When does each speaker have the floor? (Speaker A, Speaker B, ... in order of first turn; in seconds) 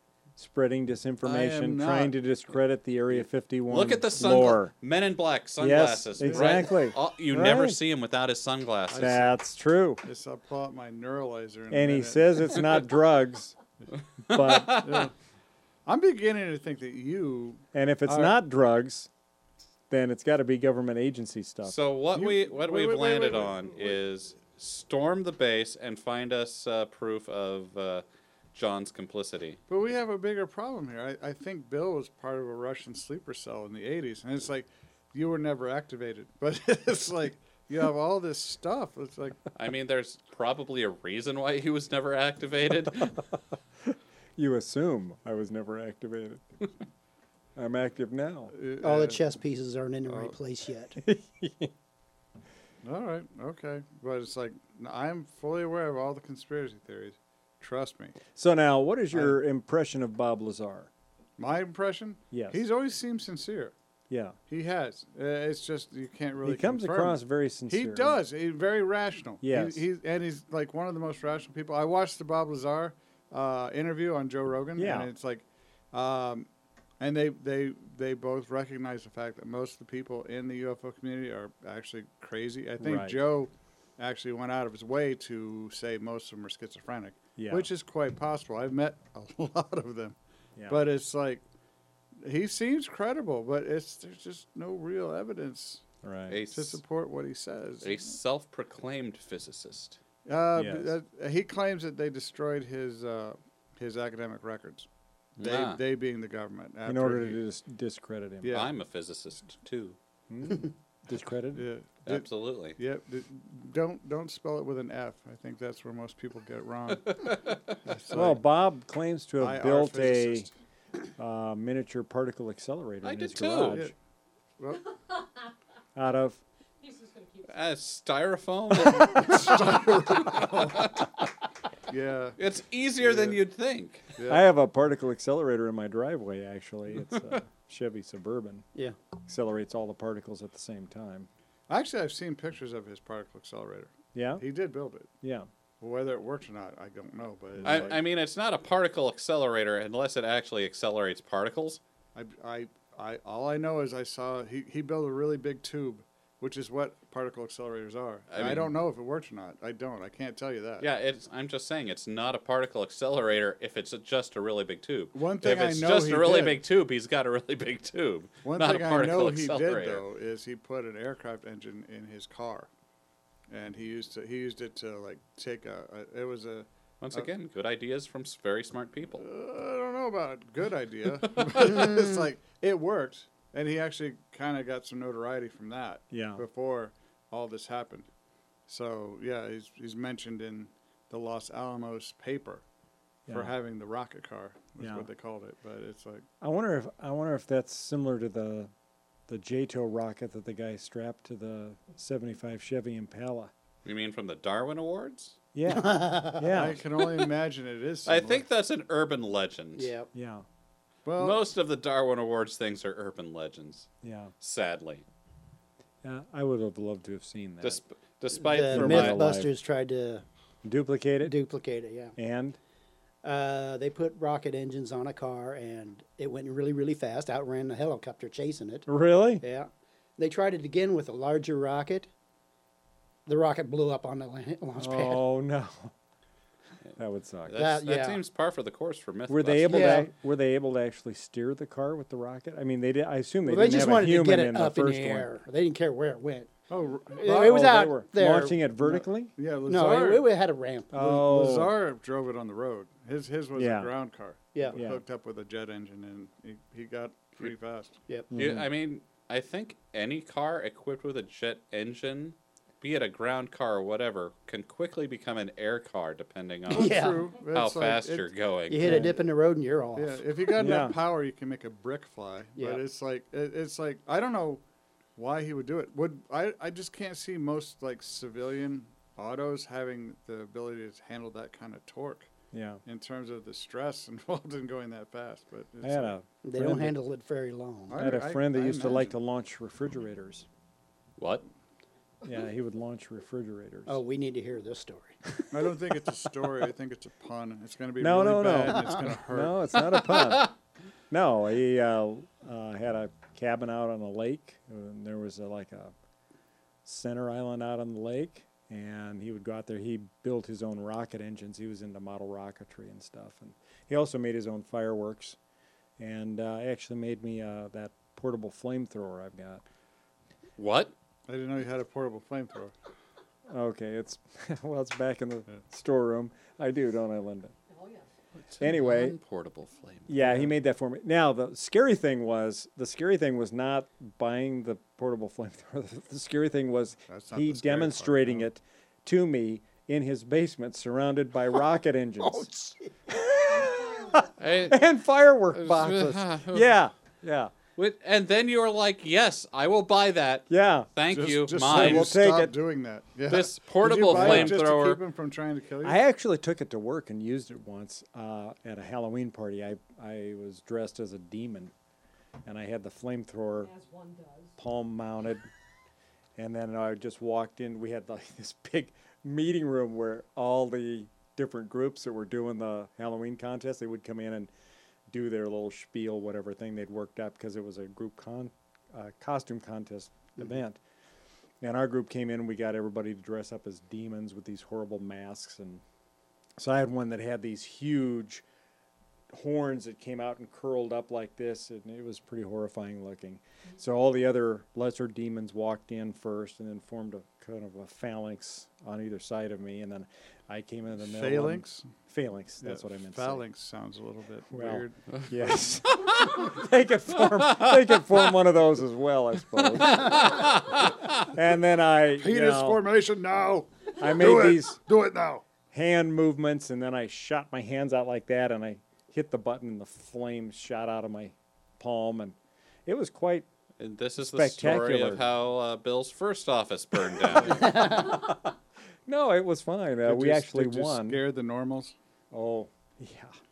Speaker A: 0.4-4.7, 5.6-7.8, 8.9-10.0, 11.7-13.6, 14.3-14.9, 17.7-19.1, 19.9-21.8, 44.4-46.7, 47.5-48.5, 51.0-51.7, 58.3-60.9, 62.3-62.6, 64.1-64.3, 66.4-68.2, 69.4-69.8, 74.8-75.1, 82.8-83.2, 87.3-87.7, 96.0-96.4, 100.5-100.9, 106.8-108.6, 110.3-111.7, 118.1-120.5, 121.2-123.9, 126.0-126.4, 134.3-138.6, 139.2-141.3, 144.1-144.4, 145.2-145.5, 147.6-147.9, 186.1-186.4, 193.3-193.5, 194.8-195.1, 196.4-198.7, 199.3-203.5, 205.5-206.8, 210.1-210.4, 214.0-214.3, 216.0-217.8, 218.7-219.5, 220.6-221.3, 222.2-222.6, 228.9-229.4, 234.8-235.9, 237.0-237.6, 239.3-245.3, 247.2-249.3, 250.9-251.8, 253.5-253.9, 254.7-255.0, 258.3-258.7, 268.8-269.1, 270.6-271.0, 282.5-282.8, 285.8-286.9, 287.9-290.5, 292.2-294.0, 298.0-300.5, 301.1-305.9, 306.8-315.4, 316.0-319.6, 323.5-327.5, 328.6-329.2, 330.1-342.5, 343.1-347.5, 350.5-350.9, 351.6-352.6, 354.0-354.6, 355.8-361.7, 362.4-363.7, 364.6-365.5, 366.4-374.5, 375.1-380.8, 381.6-385.8, 386.6-388.4, 389.3-403.4, 404.5-412.8, 414.0-414.8, 415.7-423.5, 424.2-425.2, 427.3-428.5, 429.1-431.2, 432.3-433.3
Speaker B: 1.2-2.1, 6.2-6.6, 8.9-9.4, 10.0-12.7, 14.8-15.1, 15.8-18.4, 22.1-24.0, 29.7-39.4, 48.5-49.2, 50.1-50.3, 52.8-58.2, 61.4-63.7, 64.5-76.5, 77.0-90.2, 90.7-91.4, 92.2-95.8, 96.5-98.1, 100.2-107.4, 108.4-108.7, 111.5-118.4, 119.4-120.5, 124.6-124.8, 128.9-131.0, 131.9-132.4, 133.0-133.4, 134.2-134.4, 141.7-145.1, 145.8-148.0, 152.1-160.8, 165.1-166.6, 168.4-172.7, 173.5-177.3, 179.2-188.1, 188.7-192.6, 193.3-196.3, 206.5-208.4, 211.0-211.4, 246.7-247.8, 248.8-250.3, 251.0-258.0, 266.7-268.3, 268.8-269.2, 269.9-274.6, 275.1-282.3, 282.8-286.1, 287.9-289.1, 295.5-299.7, 321.3-322.7, 337.1-338.4, 351.1-356.0, 401.0-401.9, 402.6-405.7, 412.1-415.4, 430.0-431.9
Speaker C: 3.7-9.2, 14.2-15.1, 21.6-29.6, 39.5-43.2, 96.3-96.8, 97.8-100.0, 105.4-105.8, 108.5-110.0, 112.0-112.8, 117.2-117.7, 123.0-123.8, 127.5-129.6, 130.2-131.1, 132.4-134.1, 147.6-151.8, 158.3-158.7, 160.8-170.0, 177.0-179.2, 181.3-181.8, 203.8-205.4, 208.1-209.9, 211.2-213.9, 214.4-215.0, 217.6-219.2, 236.8-240.0, 258.3-269.0, 291.2-291.4, 300.1-300.5, 320.6-320.9, 328.3-330.4, 344.4-344.8, 345.5-346.7, 347.8-352.1, 353.3-355.0, 405.9-406.4, 407.3-407.9, 409.8-411.1, 423.8-427.9
Speaker D: 48.8-51.0, 205.7-206.6, 209.8-210.1, 218.4-220.2, 221.2-222.1, 223.2-228.9, 229.4-232.1, 233.2-235.2, 237.6-238.2, 239.7-240.1, 243.4-246.5, 247.1-248.7, 249.7-251.0, 254.5-254.8, 266.7-267.3, 268.7-270.9, 272.6-272.8, 286.4-288.0, 293.9-295.2, 342.2-342.9, 427.4-428.3
Speaker E: 126.8-127.8, 327.7-328.1, 343.5-344.3, 363.6-364.6